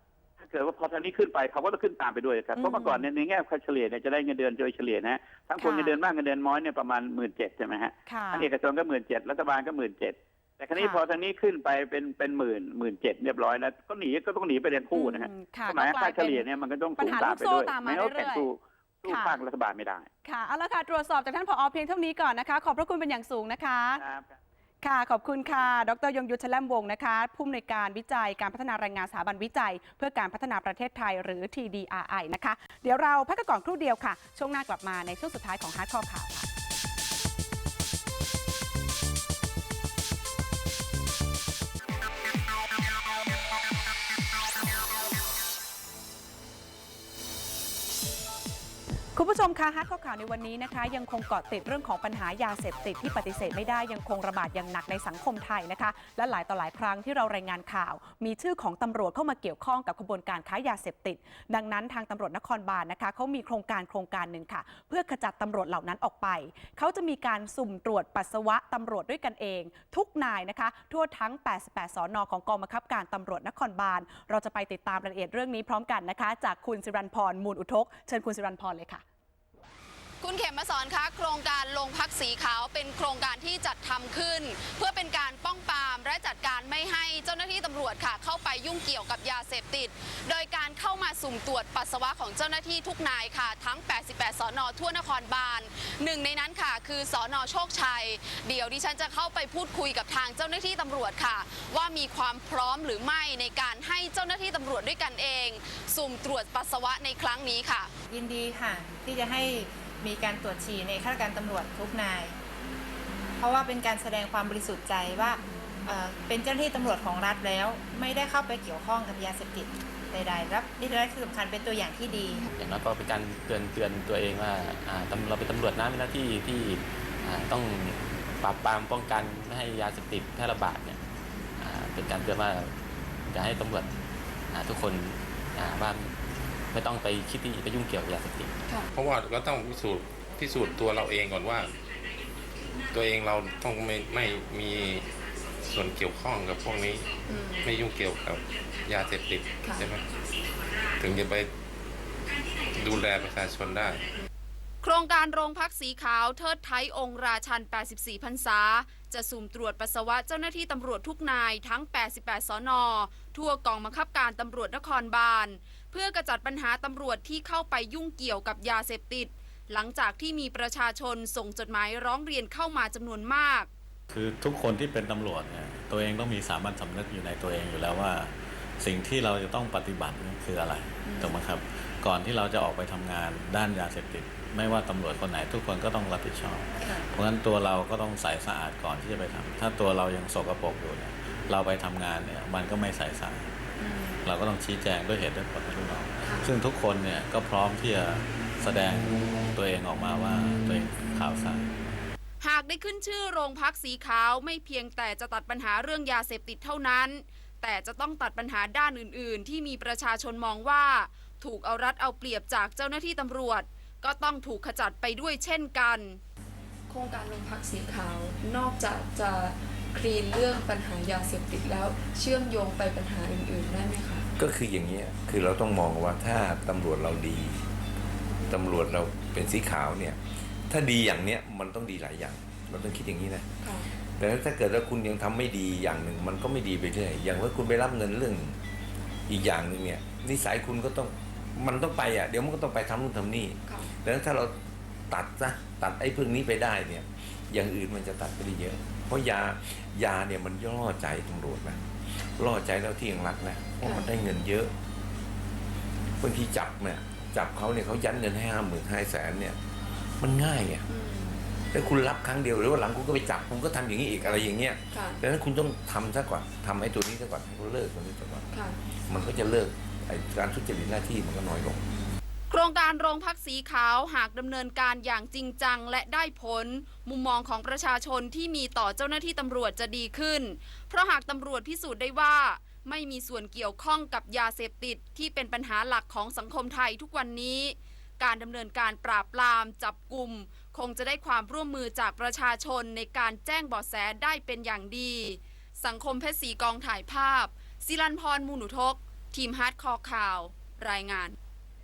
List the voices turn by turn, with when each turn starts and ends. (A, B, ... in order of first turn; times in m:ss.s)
0:00.4-0:20.1 A
0:02.6-0:03.0 B
0:05.6-0:05.9 B
0:08.1-0:08.5 B
0:14.9-0:16.4 B
0:17.0-0:18.4 B
0:19.1-0:19.4 B
0:20.2-0:24.0 B
0:24.0-0:24.3 A
0:24.8-0:36.5 B
0:49.1-1:19.0 B
1:20.2-1:47.9 C
1:48.1-1:52.4 D
1:53.4-2:02.4 D
2:02.6-2:11.0 E
2:11.6-2:12.7 E
2:13.3-2:13.9 E
2:14.5-2:16.2 E
2:16.7-2:18.5 E
2:18.7-2:18.9 F
2:18.9-2:21.8 G
2:22.9-2:30.1 G
2:27.2-2:27.6 F
2:31.0-2:31.5 G
2:32.7-2:34.1 G
2:34.8-2:53.7 C
2:54.1-3:13.5 H
3:01.0-3:01.4 F
3:06.8-3:07.1 F
3:13.8-3:14.2 F
3:14.2-3:21.7 H
3:16.2-3:16.5 F
3:22.4-3:36.2 C
3:36.9-3:44.3 F
3:44.4-3:47.6 I
3:48.5-3:58.6 I
3:53.6-3:53.9 F
3:59.3-4:04.6 I
4:03.7-4:03.9 F
4:05.1-4:14.7 I
4:13.8-4:14.1 F
4:16.2-4:19.6 I
4:20.2-4:20.8 I
4:20.9-4:21.5 F
4:21.7-4:31.8 I
4:24.9-4:25.2 F
4:28.5-4:28.8 F
4:32.5-5:01.4 C